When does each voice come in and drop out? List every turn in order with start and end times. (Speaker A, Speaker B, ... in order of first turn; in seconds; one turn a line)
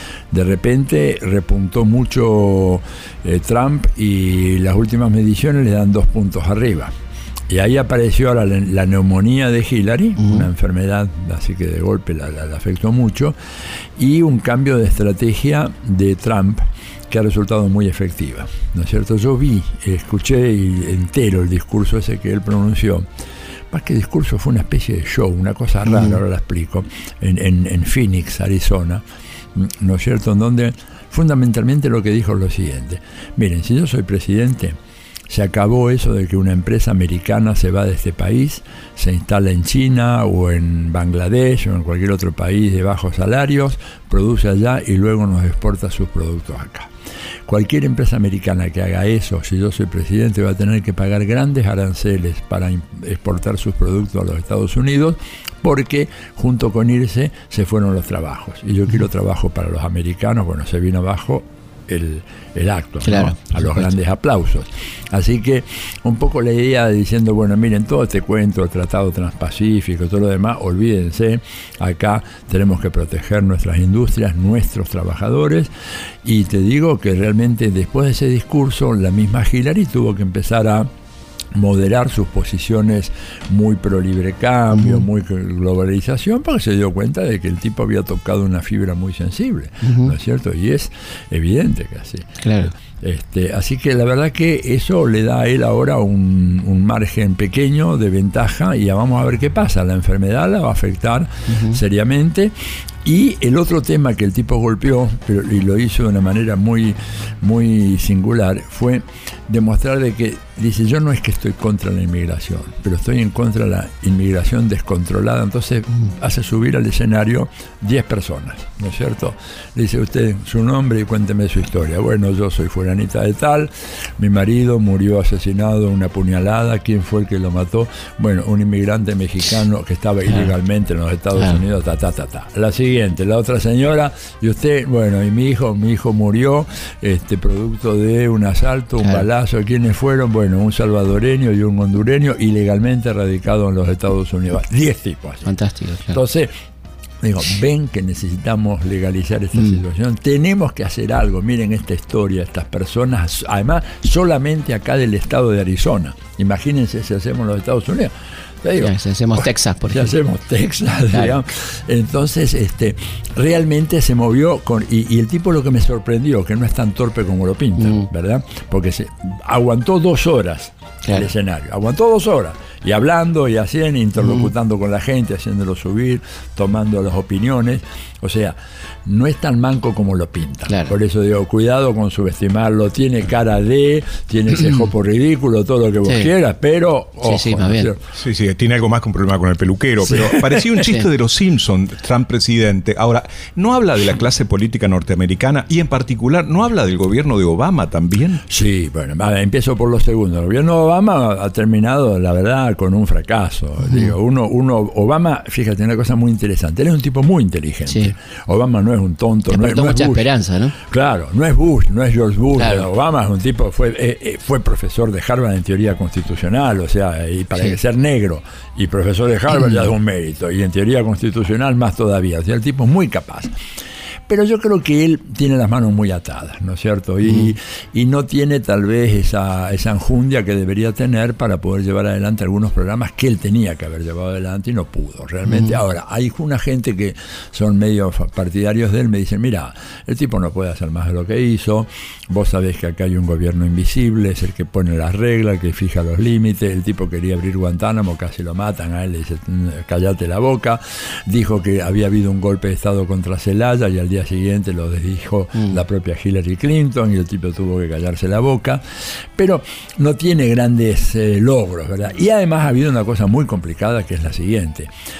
Speaker A: 0.3-6.9
Speaker A: 7.5-13.3
Speaker B: 10.2-10.5
Speaker A: 14.0-23.1
Speaker A: 23.7-34.8
Speaker B: 25.9-26.1
Speaker A: 35.3-46.9
Speaker A: 47.5-75.7
Speaker B: 63.0-63.9
Speaker A: 76.2-80.9
Speaker A: 81.5-145.5
Speaker B: 84.7-85.0
Speaker B: 89.8-90.1
Speaker B: 92.4-92.7
Speaker B: 101.5-101.8
Speaker B: 131.3-131.6
Speaker B: 145.4-146.2
Speaker A: 146.1-146.5
Speaker A: 147.2-188.0
Speaker B: 158.8-160.1
Speaker B: 161.1-161.4
Speaker B: 167.8-168.1
Speaker B: 174.2-174.5
Speaker B: 180.7-180.9
Speaker B: 184.6-184.8
Speaker B: 187.2-187.9
Speaker C: 188.1-198.4
Speaker A: 190.1-190.8
Speaker B: 190.8-191.1
Speaker A: 198.5-223.5
Speaker B: 203.8-204.1
Speaker B: 207.9-208.1
Speaker B: 209.5-210.8
Speaker B: 212.6-212.9
Speaker A: 224.3-264.9
Speaker B: 235.4-235.8